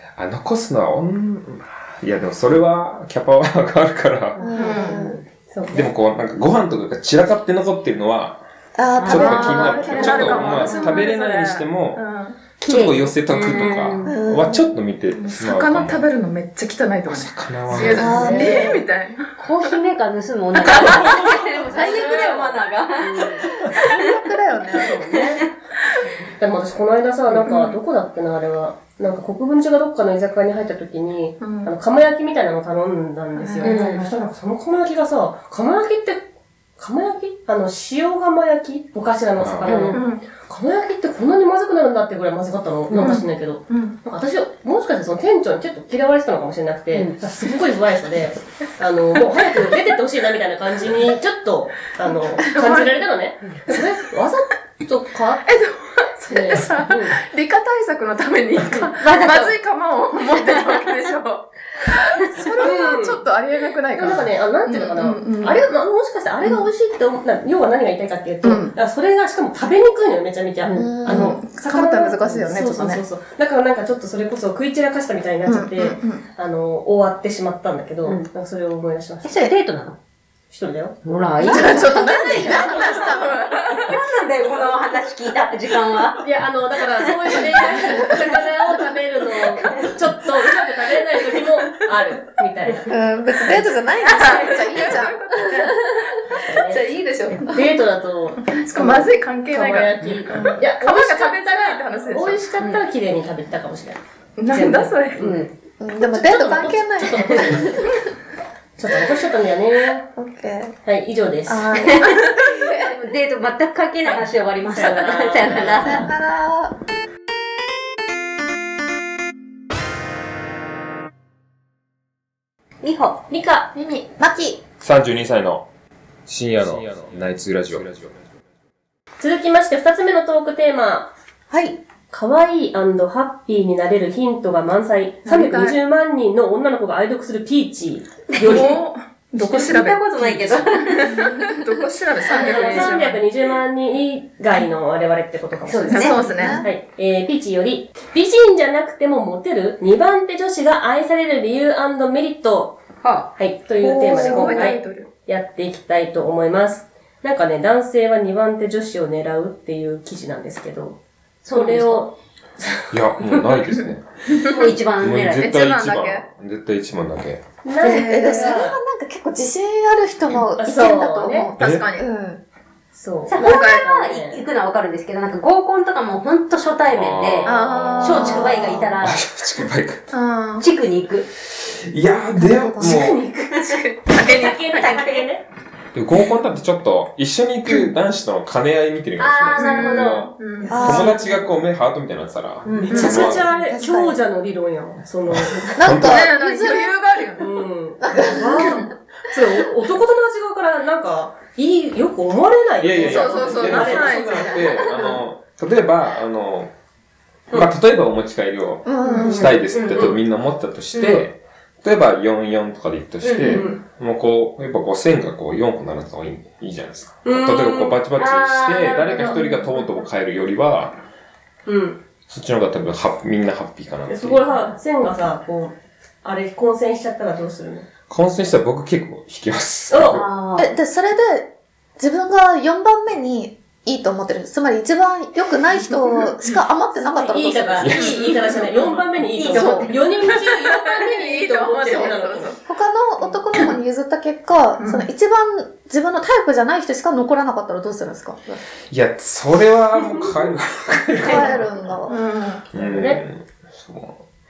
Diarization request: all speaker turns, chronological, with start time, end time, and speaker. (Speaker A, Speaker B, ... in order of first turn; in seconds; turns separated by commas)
Speaker A: 0.2-4.4, Speaker B: 4.4-5.2, Speaker C: 4.4-5.2, Speaker D: 4.6-5.0, Speaker E: 5.5-5.9, Speaker A: 5.7-8.4, Speaker C: 8.8-10.8, Speaker B: 9.0-10.8, Speaker A: 9.0-12.0, Speaker D: 9.1-12.4, Speaker A: 12.6-16.1, Speaker B: 12.6-14.2, Speaker C: 14.1-14.7, Speaker D: 15.1-19.3, Speaker A: 17.1-18.3, Speaker E: 17.8-18.5, Speaker C: 17.9-18.8, Speaker B: 18.2-18.7, Speaker B: 19.4-24.1, Speaker D: 20.6-22.5, Speaker E: 20.8-23.5, Speaker C: 23.8-25.3, Speaker E: 24.8-25.5, Speaker B: 24.9-25.5, Speaker E: 26.4-36.2, Speaker D: 31.4-31.7, Speaker D: 33.4-34.1, Speaker B: 33.6-34.0, Speaker E: 36.8-55.5, Speaker A: 39.4-39.9, Speaker B: 39.6-40.0, Speaker D: 39.9-40.2, Speaker B: 42.9-43.2, Speaker D: 43.0-44.0, Speaker D: 52.4-53.0, Speaker D: 55.5-65.6, Speaker E: 56.3-57.2, Speaker E: 58.6-58.9, Speaker B: 59.0-59.6, Speaker B: 60.2-60.9, Speaker E: 62.6-63.2, Speaker E: 63.9-79.5, Speaker D: 68.4-68.8, Speaker B: 70.7-71.0, Speaker C: 70.7-71.4, Speaker D: 71.1-73.0, Speaker D: 75.5-76.2, Speaker B: 79.2-80.0, Speaker E: 80.5-81.0, Speaker B: 81.0-86.2, Speaker D: 81.4-84.0, Speaker C: 81.5-81.9, Speaker E: 86.2-93.0, Speaker B: 87.0-90.0, Speaker C: 92.9-97.6, Speaker D: 94.0-96.1, Speaker E: 96.3-105.4, Speaker D: 98.5-102.5, Speaker D: 104.4-105.2, Speaker B: 105.2-105.5, Speaker C: 105.8-107.9, Speaker E: 106.0-108.0, Speaker E: 108.8-110.1, Speaker C: 110.2-110.8, Speaker E: 110.9-112.0, Speaker C: 111.5-112.9, Speaker B: 111.8-116.1, Speaker E: 114.0-116.1, Speaker C: 115.8-116.8, Speaker B: 122.8-123.2, Speaker E: 123.3-123.7, Speaker C: 123.8-124.6, Speaker A: 124.8-125.7, Speaker A: 126.3-128.2, Speaker E: 129.2-131.1, Speaker C: 131.5-131.8, Speaker E: 132.1-138.8, Speaker D: 135.3-135.8, Speaker B: 138.3-138.7, Speaker D: 138.4-143.2, Speaker B: 139.4-141.6, Speaker B: 142.3-142.9, Speaker E: 142.3-152.8, Speaker B: 145.7-146.6, Speaker D: 145.9-146.7, Speaker C: 146.2-146.7, Speaker B: 153.0-153.3, Speaker E: 153.3-162.9, Speaker D: 153.8-155.1, Speaker B: 154.1-154.7, Speaker B: 161.4-162.1, Speaker A: 162.9-164.1, Speaker D: 164.3-164.8, Speaker B: 164.4-165.6, Speaker A: 165.0-167.4, Speaker D: 165.4-166.2, Speaker E: 167.7-168.8, Speaker D: 167.8-168.6, Speaker C: 167.8-172.4, Speaker E: 170.6-171.5, Speaker D: 171.6-172.1, Speaker A: 171.6-171.8, Speaker E: 172.9-174.4, Speaker B: 173.3-179.2, Speaker D: 173.4-173.8, Speaker A: 176.9-180.1, Speaker D: 177.4-178.8, Speaker D: 180.1-180.7, Speaker B: 180.6-181.3, Speaker A: 181.5-183.3, Speaker C: 182.3-183.2, Speaker E: 182.8-185.4, Speaker D: 183.6-184.9, Speaker B: 184.7-185.3, Speaker A: 185.9-193.5, Speaker B: 189.2-190.3, Speaker D: 189.6-191.0, Speaker C: 190.7-191.5, Speaker B: 192.7-193.4, Speaker E: 192.7-195.8, Speaker D: 192.9-193.4, Speaker C: 193.0-194.2, Speaker A: 195.3-196.3, Speaker C: 195.8-197.0, Speaker D: 196.0-197.6, Speaker E: 197.4-204.5, Speaker C: 198.1-198.8, Speaker A: 202.8-206.7, Speaker D: 203.0-204.8, Speaker B: 204.7-205.2, Speaker A: 207.5-221.0, Speaker C: 208.8-209.4, Speaker D: 209.0-209.4, Speaker B: 209.2-210.2, Speaker E: 209.2-210.2, Speaker B: 213.2-213.7, Speaker E: 213.5-213.8, Speaker E: 217.2-218.0, Speaker B: 218.2-220.0, Speaker E: 221.7-222.0, Speaker A: 222.3-224.5, Speaker E: 224.1-227.9, Speaker A: 228.1-230.3, Speaker E: 229.9-230.2, Speaker B: 230.1-230.7, Speaker C: 230.6-238.1, Speaker E: 236.9-242.5, Speaker A: 237.8-238.2, Speaker D: 237.9-238.7, Speaker B: 239.3-239.9, Speaker D: 239.5-242.6, Speaker C: 242.7-248.6, Speaker D: 244.8-245.1, Speaker A: 248.9-251.8, Speaker C: 251.2-252.2, Speaker D: 252.1-252.6, Speaker A: 252.7-254.2, Speaker E: 252.8-253.2